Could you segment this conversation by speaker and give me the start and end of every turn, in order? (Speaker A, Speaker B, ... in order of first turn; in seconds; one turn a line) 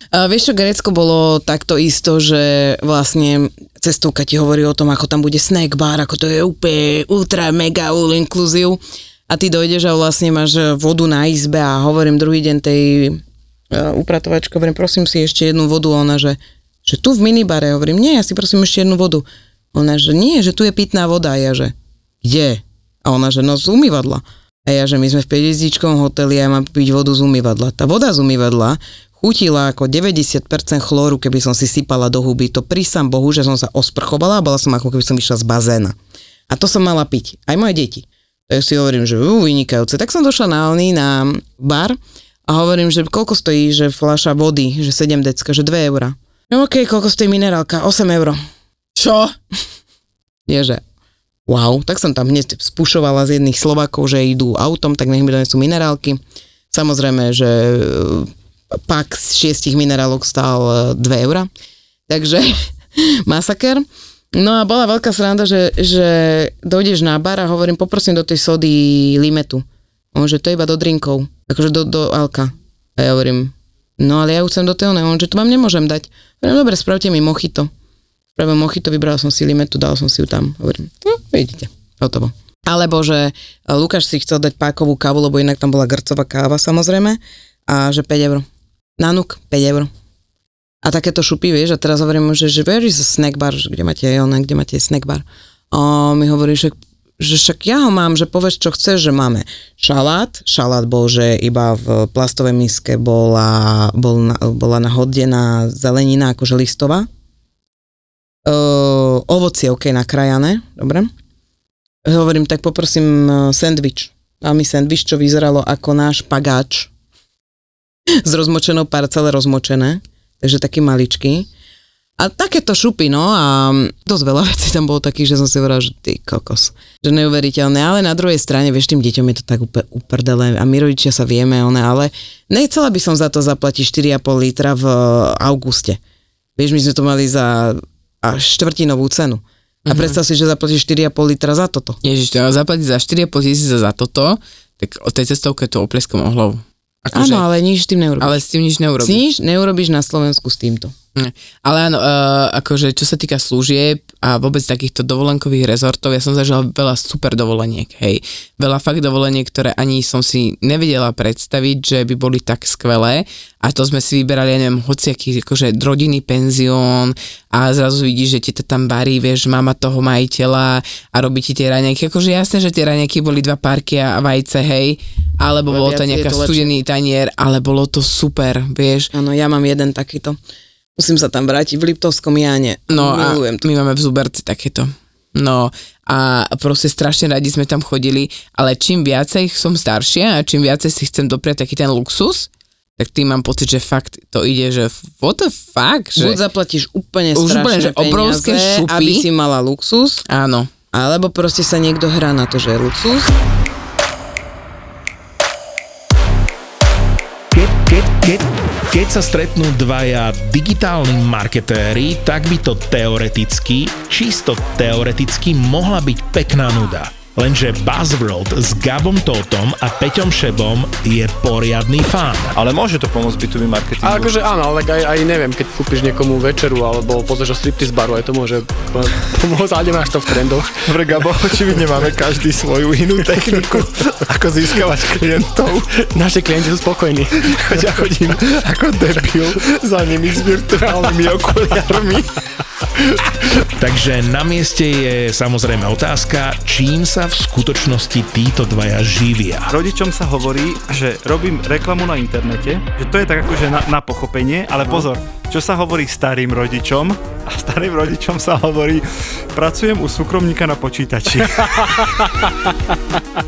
Speaker A: 0.1-13.2
Speaker A: 13.7-36.0
Speaker A: 36.5-48.4
Speaker B: 48.9-49.3
Speaker A: 50.5-50.8
Speaker A: 51.5-56.2
Speaker A: 56.7-61.5
Speaker A: 62.1-77.7
Speaker A: 78.3-88.5
Speaker A: 89.0-89.9
Speaker A: 90.8-107.1
Speaker A: 108.5-111.1
Speaker A: 112.0-116.9
Speaker A: 118.2-121.5
Speaker A: 122.2-136.0
Speaker A: 136.6-142.0
Speaker B: 139.9-140.2
Speaker B: 142.0-147.4
Speaker A: 147.1-148.4
Speaker B: 148.2-149.2
Speaker A: 149.0-150.9
Speaker B: 151.1-179.1
Speaker A: 175.7-176.7
Speaker A: 179.1-180.4
Speaker A: 181.0-183.7
Speaker B: 182.9-196.4
Speaker A: 196.2-200.2
Speaker B: 197.3-199.2
Speaker B: 200.3-200.7
Speaker A: 200.9-203.3
Speaker C: 207.5-222.5
Speaker D: 222.5-224.4
Speaker E: 224.0-231.8
Speaker D: 230.9-235.4
Speaker E: 232.8-239.6
Speaker D: 237.4-238.1
Speaker D: 238.7-242.2
Speaker E: 240.4-241.8
Speaker C: 243.8-249.7
Speaker D: 249.7-262.3